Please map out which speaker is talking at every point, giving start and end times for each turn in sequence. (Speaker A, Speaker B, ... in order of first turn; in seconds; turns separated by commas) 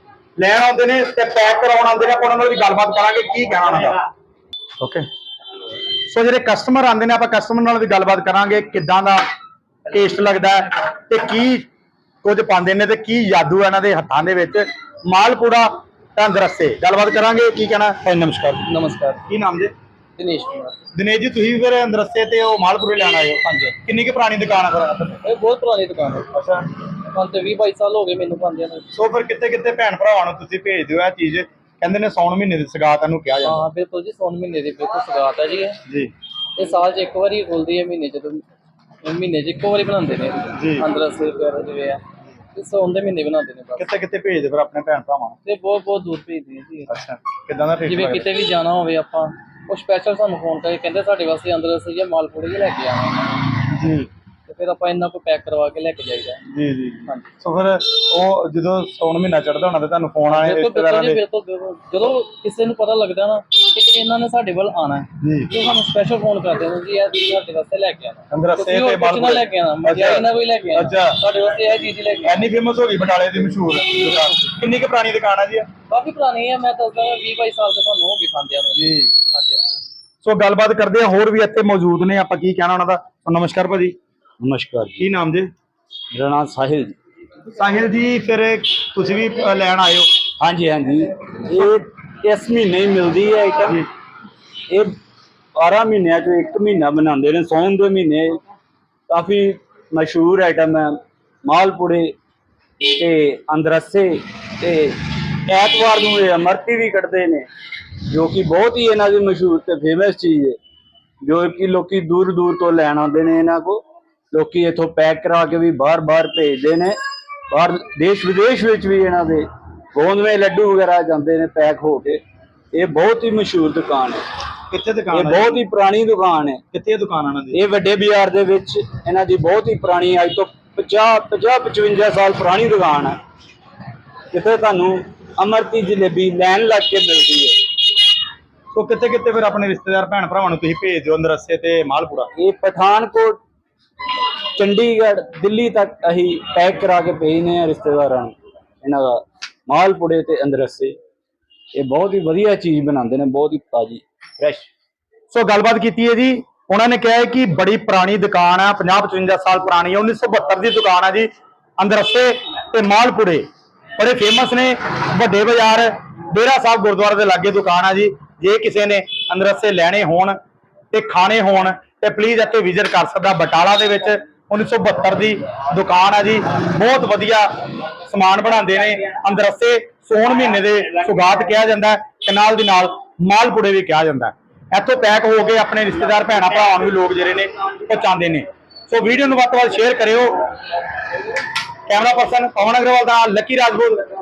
Speaker A: 0.4-4.0, Speaker A: 4.8-5.0, Speaker A: 6.1-9.2, Speaker A: 9.9-11.7, Speaker A: 12.2-18.7, Speaker B: 18.7-19.2, Speaker A: 19.3-19.7, Speaker B: 20.2-20.8, Speaker A: 20.9-25.2, Speaker B: 25.2-26.3, Speaker A: 26.3-26.7, Speaker B: 27.1-28.9, Speaker A: 28.9-33.6, Speaker B: 33.4-35.8, Speaker A: 35.9-36.1, Speaker B: 36.6-38.4, Speaker B: 39.0-42.0, Speaker A: 40.6-40.9, Speaker B: 42.6-43.9, Speaker A: 43.8-45.4, Speaker B: 45.5-46.9, Speaker A: 46.9-48.3, Speaker B: 47.9-53.6, Speaker A: 53.7-54.1, Speaker B: 54.5-56.4, Speaker A: 56.5-61.2, Speaker B: 60.3-72.4, Speaker A: 65.2-65.5, Speaker A: 68.3-71.2, Speaker A: 72.2-75.7, Speaker B: 75.9-79.6, Speaker A: 78.8-79.1, Speaker A: 80.2-84.0, Speaker C: 84.4-85.0, Speaker A: 85.0-85.5, Speaker C: 86.1-87.0, Speaker A: 87.5-90.1, Speaker C: 90.4-93.8, Speaker C: 94.7-95.0, Speaker C: 95.6-98.4, Speaker C: 99.1-102.2, Speaker C: 102.8-107.5, Speaker C: 108.1-110.6, Speaker C: 111.2-117.0, Speaker C: 117.5-122.2, Speaker C: 122.7-124.2, Speaker A: 124.7-125.6, Speaker C: 125.1-126.6, Speaker A: 126.7-127.6, Speaker C: 127.5-133.2, Speaker C: 134.3-137.6, Speaker A: 138.7-142.3, Speaker C: 142.4-143.4, Speaker C: 144.6-151.0, Speaker C: 151.8-154.7, Speaker A: 155.3-163.5, Speaker A: 164.0-170.4, Speaker A: 170.9-177.5, Speaker A: 178.1-190.4, Speaker A: 191.9-194.1